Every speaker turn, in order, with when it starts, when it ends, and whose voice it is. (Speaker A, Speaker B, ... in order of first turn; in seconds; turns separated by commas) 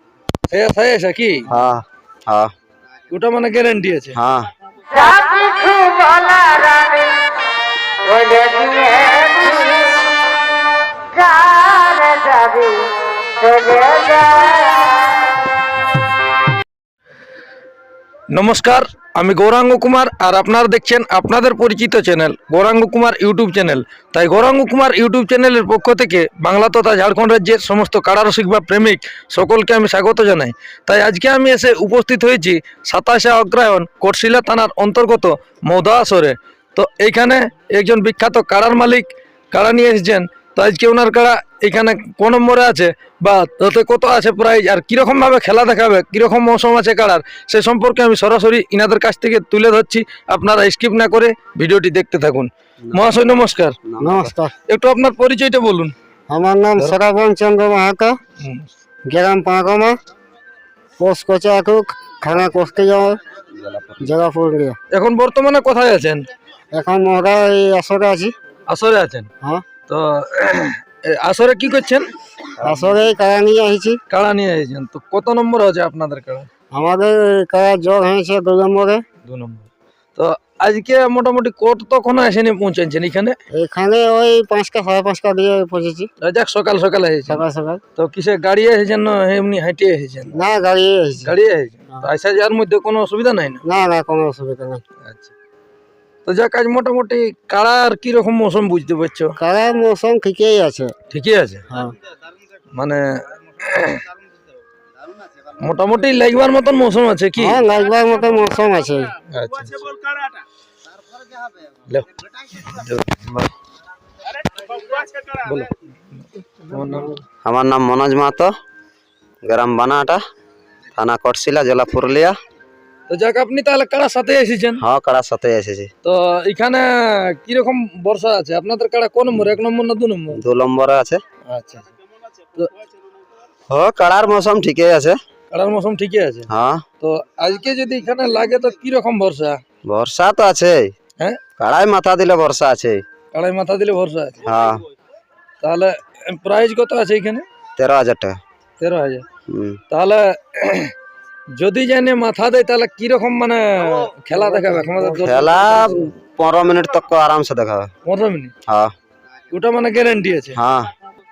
Speaker A: 0.5-1.5, Speaker B: 1.5-2.5, Speaker A: 3.1-4.2, Speaker B: 4.2-4.5, Speaker C: 4.9-7.2, Speaker C: 8.0-10.0, Speaker C: 11.1-14.9, Speaker A: 18.3-53.8, Speaker B: 53.8-54.3, Speaker C: 54.0-54.5, Speaker A: 54.7-55.9, Speaker C: 56.3-58.2, Speaker A: 58.4-58.7, Speaker C: 59.1-60.0, Speaker C: 61.0-63.2, Speaker B: 63.5-64.1, Speaker C: 64.0-64.8, Speaker A: 64.9-66.2, Speaker C: 66.7-68.3, Speaker A: 68.7-69.3, Speaker A: 69.9-72.1, Speaker B: 72.6-73.0, Speaker C: 72.6-74.0, Speaker A: 74.1-76.5, Speaker C: 76.7-79.0, Speaker A: 79.2-83.4, Speaker C: 83.5-86.1, Speaker A: 86.2-87.4, Speaker C: 87.3-87.8, Speaker A: 88.0-90.3, Speaker C: 90.3-91.4, Speaker A: 91.2-93.6, Speaker C: 93.6-94.8, Speaker A: 95.0-95.3, Speaker A: 96.2-99.3, Speaker C: 99.4-101.0, Speaker A: 101.1-101.7, Speaker C: 101.7-102.0, Speaker A: 102.8-104.0, Speaker A: 105.6-107.6, Speaker C: 107.4-109.2, Speaker A: 109.3-109.9, Speaker A: 111.9-113.5, Speaker A: 114.8-117.2, Speaker C: 116.9-117.1, Speaker B: 117.4-118.5, Speaker B: 119.4-120.2, Speaker B: 121.0-122.4, Speaker A: 123.1-124.8, Speaker B: 124.8-125.9, Speaker A: 126.0-130.4, Speaker B: 130.3-131.2, Speaker A: 131.4-131.9, Speaker B: 133.7-135.2, Speaker A: 135.5-136.5, Speaker B: 136.5-136.8, Speaker A: 137.0-139.6, Speaker B: 139.9-140.9, Speaker B: 141.6-143.0, Speaker A: 143.3-144.4, Speaker B: 144.4-144.8, Speaker A: 145.6-147.4, Speaker B: 147.8-148.4, Speaker A: 148.8-149.2, Speaker B: 149.5-149.8, Speaker A: 149.9-150.9, Speaker A: 151.6-156.1, Speaker C: 154.3-155.8, Speaker B: 155.2-157.9, Speaker A: 158.1-158.5, Speaker B: 158.7-158.9, Speaker A: 159.5-160.6, Speaker B: 160.6-160.9